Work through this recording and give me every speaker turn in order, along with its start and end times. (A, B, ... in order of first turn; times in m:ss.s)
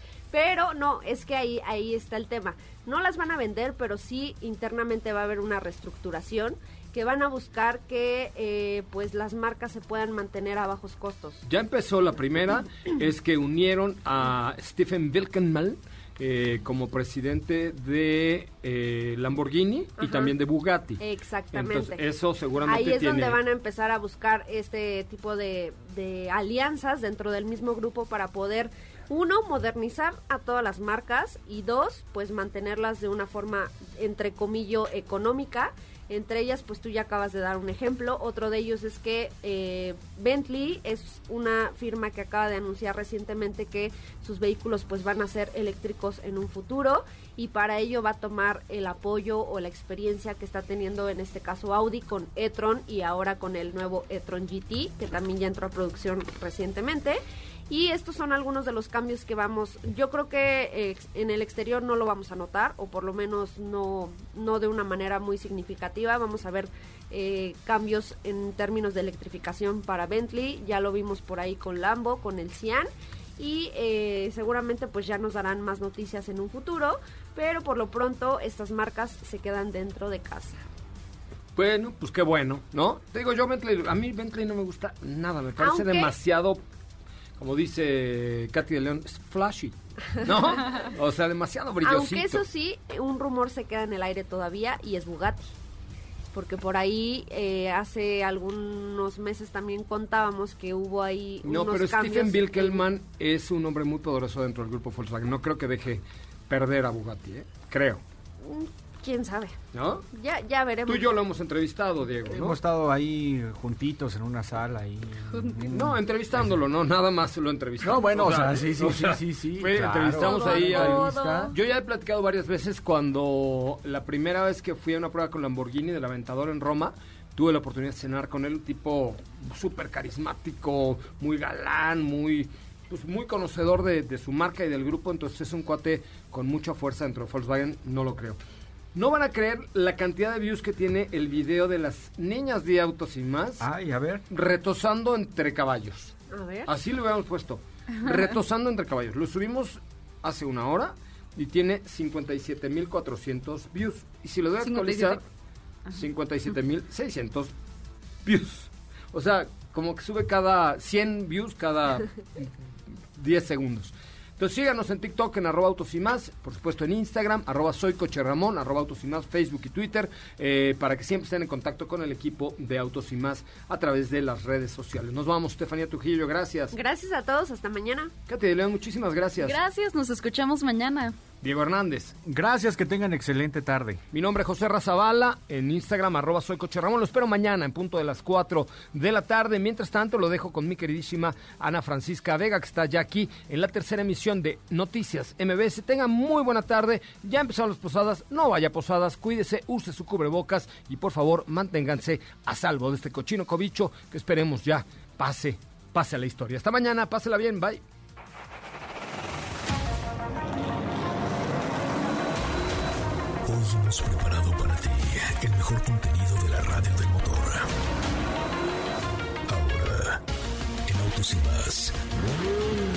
0:00.3-0:11.4 A
0:11.5-0:21.0 B
0:20.0-0:20.4 A
0:21.0-0:22.0 A
0:21.5-0:23.4 B
0:22.6-1:20.6 A
1:21.6-1:26.6 B
1:25.6-1:26.2 A
1:27.4-1:32.4 B
1:30.2-1:30.6 A
1:31.8-1:35.5 A
1:36.3-1:42.9 A
1:41.4-1:48.0 B
1:48.4-1:49.6 A
1:49.7-1:50.0 B
1:50.1-1:51.1 A
1:50.9-1:52.6 B
1:52.3-1:56.6 C
1:55.3-1:55.7 D
1:55.7-2:18.4 B
1:57.8-2:01.6 C
2:00.0-2:01.6 A
2:19.0-2:23.7 B
2:23.6-2:24.2 C
2:24.3-2:26.1 B
2:26.3-2:26.8 A
2:26.7-2:35.2 B
2:34.6-2:35.2 D
2:35.9-2:37.5 B
2:38.2-2:42.0 B
2:43.2-2:56.7 B
2:56.7-2:58.1 A
2:58.3-2:59.6 B
2:59.4-3:01.2 D
3:01.4-3:02.1 B
3:02.2-3:04.0 C
3:04.1-3:27.8 B
3:33.5-3:37.7 E
3:39.5-3:40.2 E
3:40.9-3:42.0 E